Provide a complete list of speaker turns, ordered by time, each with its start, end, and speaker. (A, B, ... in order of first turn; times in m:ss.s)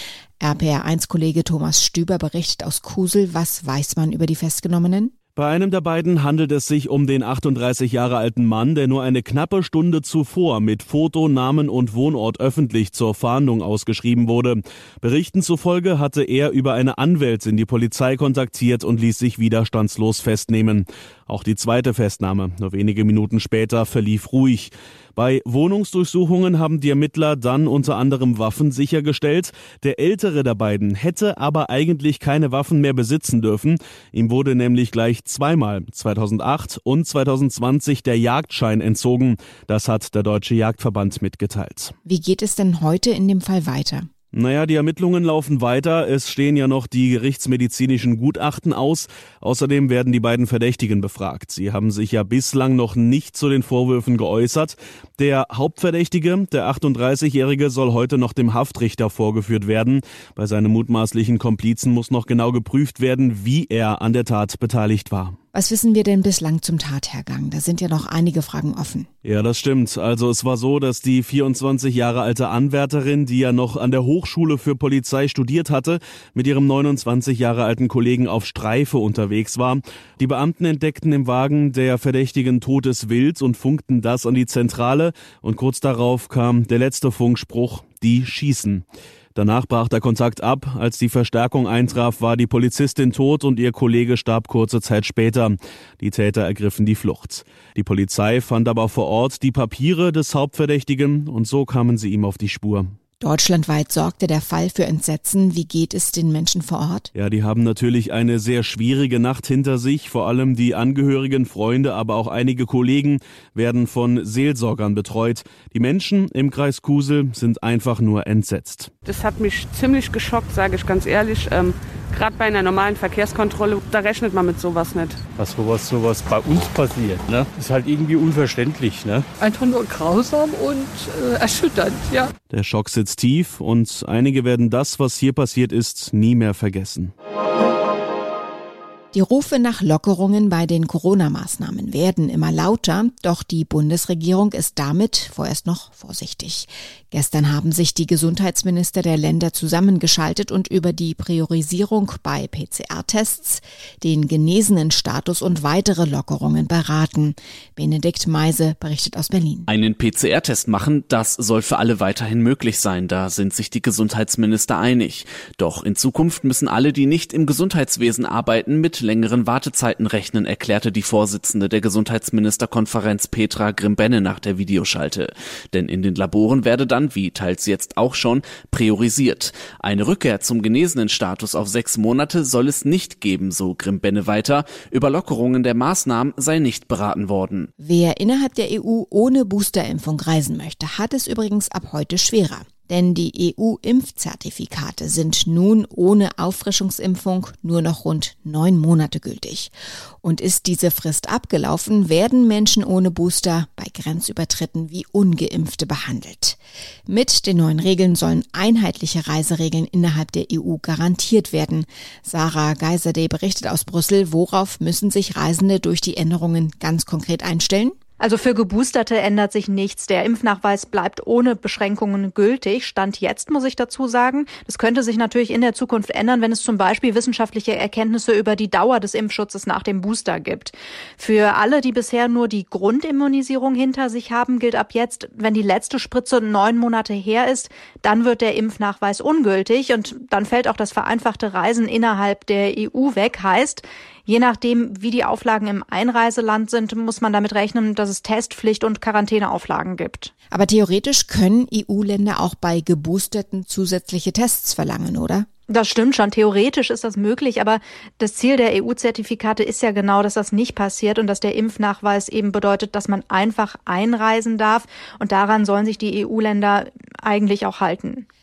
0:00.4-0:05.1 A
0:05.4-0:41.9 B
0:42.0-0:44.1 A
0:44.3-1:05.4 B
1:05.5-1:09.1 A
1:09.2-1:42.9 B
1:43.2-1:47.1 A
1:47.1-1:58.9 B
1:59.0-2:05.2 C
2:05.4-2:09.2 D
2:09.4-2:12.3 E
2:12.5-2:17.1 B
2:19.1-2:39.7 A
2:39.7-3:07.7 F
3:07.8-3:38.0 A
3:38.2-4:10.3 G
4:10.5-4:15.5 A
4:15.7-4:28.2 G